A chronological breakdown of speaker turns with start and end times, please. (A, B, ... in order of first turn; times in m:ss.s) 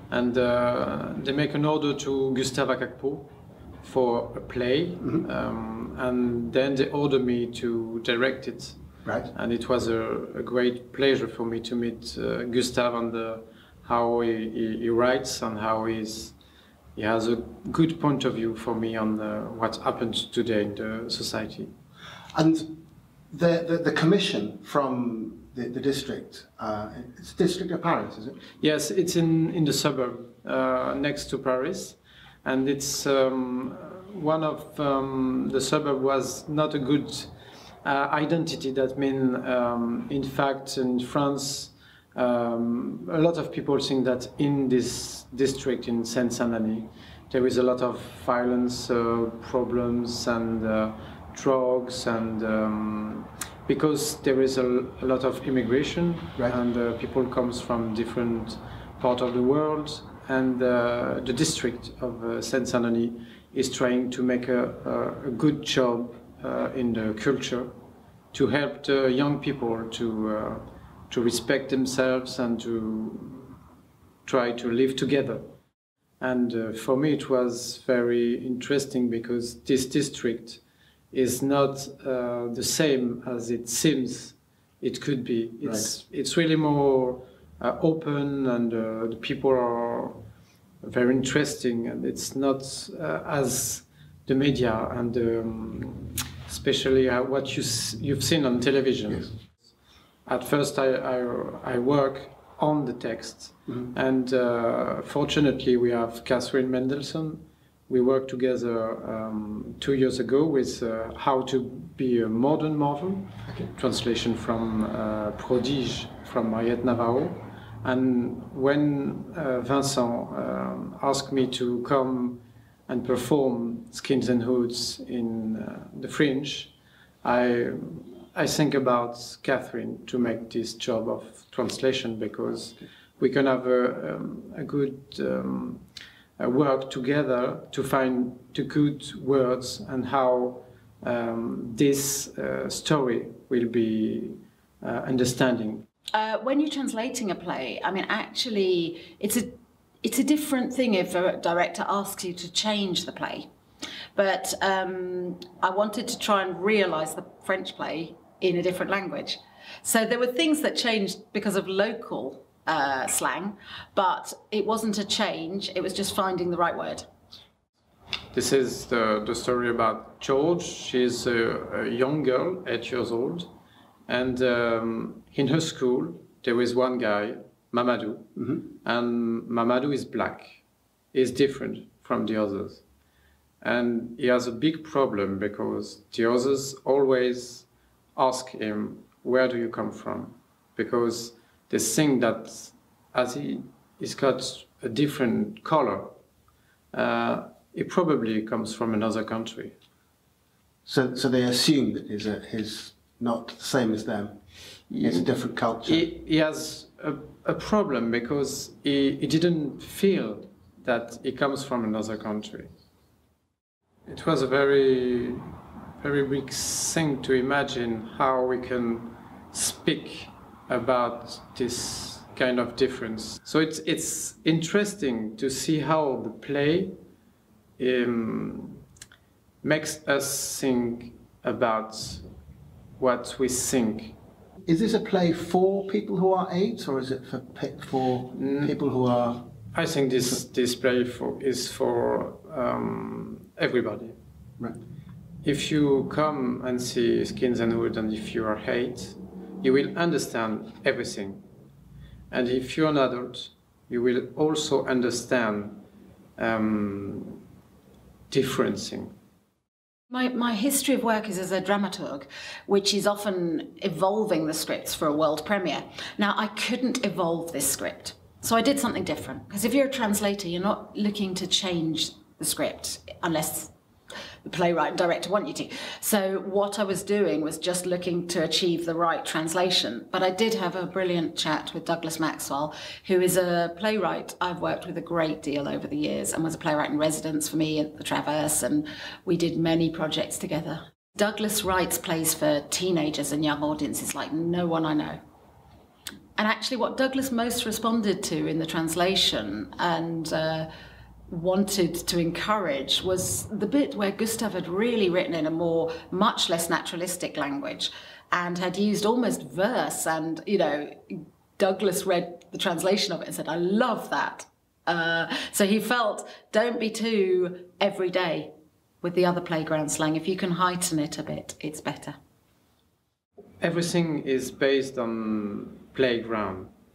0:00.1-0:03.3 A
0:03.8-0:08.8 A
0:09.0-0:09.3 B
0:09.3-0:16.4 A
0:17.0-0:21.7 A
0:22.3-0:28.4 B
0:28.6-0:37.3 A
0:37.8-1:07.7 A
1:08.3-1:13.6 A
1:14.3-1:15.4 A
1:16.2-1:20.6 A
1:21.1-1:30.2 A
1:25.6-1:25.9 B
1:30.8-1:39.4 A
1:40.3-2:15.8 A
2:16.4-2:25.8 A
2:26.1-2:33.5 C
2:34.2-2:47.0 C
2:48.3-2:53.5 A
2:54.1-3:00.6 A
3:01.1-3:02.8 A
3:03.6-3:16.1 A
3:16.9-3:19.8 A
3:20.9-3:24.4 B
3:24.9-3:25.3 A
3:25.0-3:26.1 B
3:25.8-3:32.7 A
3:34.1-3:35.4 A
3:36.0-3:47.0 A
3:47.8-3:48.8 A
3:49.6-3:52.2 A
3:53.0-3:54.2 A
3:54.7-3:59.5 B
3:58.4-3:58.8 A
3:59.7-4:04.2 A
4:05.4-4:11.4 A
4:12.3-4:15.8 A
4:16.4-4:17.4 A
4:18.3-4:19.1 A
4:20.1-4:33.7 C
4:34.4-4:55.2 C
4:56.4-5:00.7 C
5:01.3-5:18.5 C
5:19.0-5:22.2 C
5:23.6-5:26.7 A